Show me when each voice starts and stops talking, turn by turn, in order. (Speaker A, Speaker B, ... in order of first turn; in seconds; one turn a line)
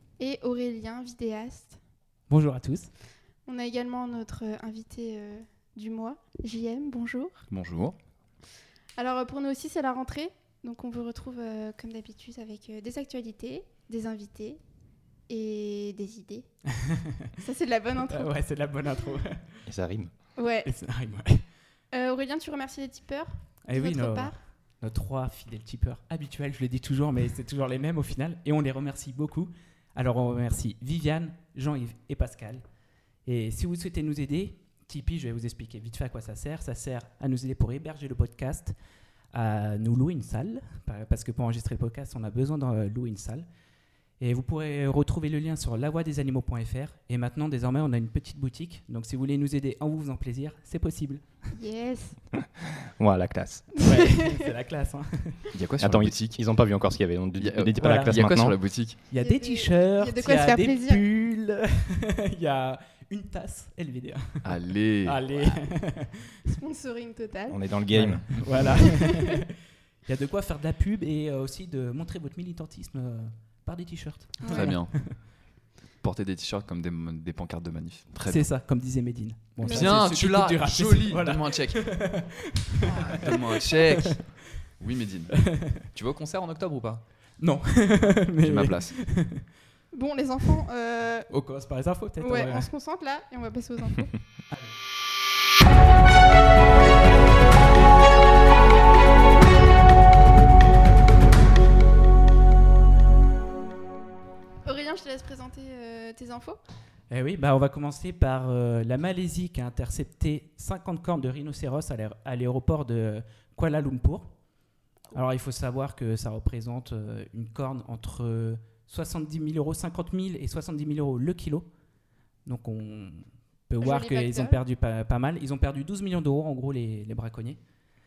Speaker A: 0.2-1.8
Speaker B: 2.3-2.9
Speaker A: 3.5-7.5
Speaker C: 7.5-8.0
Speaker A: 9.0-14.6
Speaker A: 15.3-16.5
Speaker A: 17.4-18.4
Speaker B: 18.1-19.6
Speaker D: 19.7-20.1
Speaker A: 20.4-20.7
Speaker B: 20.6-21.4
Speaker A: 21.9-24.4
Speaker B: 23.6-32.6
Speaker B: 33.2-38.8
Speaker B: 39.3-43.5
Speaker B: 44.2-51.4
Speaker A: 51.6-52.2
Speaker D: 52.8-53.9
Speaker B: 53.8-55.4
Speaker A: 54.0-54.4
Speaker C: 55.5-56.4
Speaker D: 55.8-58.6
Speaker C: 57.4-59.0
Speaker B: 57.8-58.1
Speaker B: 59.1-66.4
Speaker A: 59.2-61.0
Speaker C: 64.4-65.5
Speaker A: 66.5-67.6
Speaker D: 67.5-68.7
Speaker B: 67.9-69.5
Speaker C: 68.4-68.7
Speaker A: 68.7-69.3
Speaker B: 70.0-75.2
Speaker A: 74.4-74.8
Speaker C: 74.5-75.4
Speaker C: 76.0-78.5
Speaker B: 78.2-84.4
Speaker A: 79.6-80.0
Speaker C: 79.7-82.3
Speaker C: 82.9-87.0
Speaker B: 85.4-85.8
Speaker B: 87.4-89.5
Speaker C: 88.4-89.0
Speaker A: 89.9-91.4
Speaker B: 91.3-92.7
Speaker A: 92.2-94.2
Speaker A: 104.6-106.6
Speaker B: 107.1-114.3
Speaker B: 115.1-121.7
Speaker B: 122.5-127.6
Speaker A: 123.8-124.6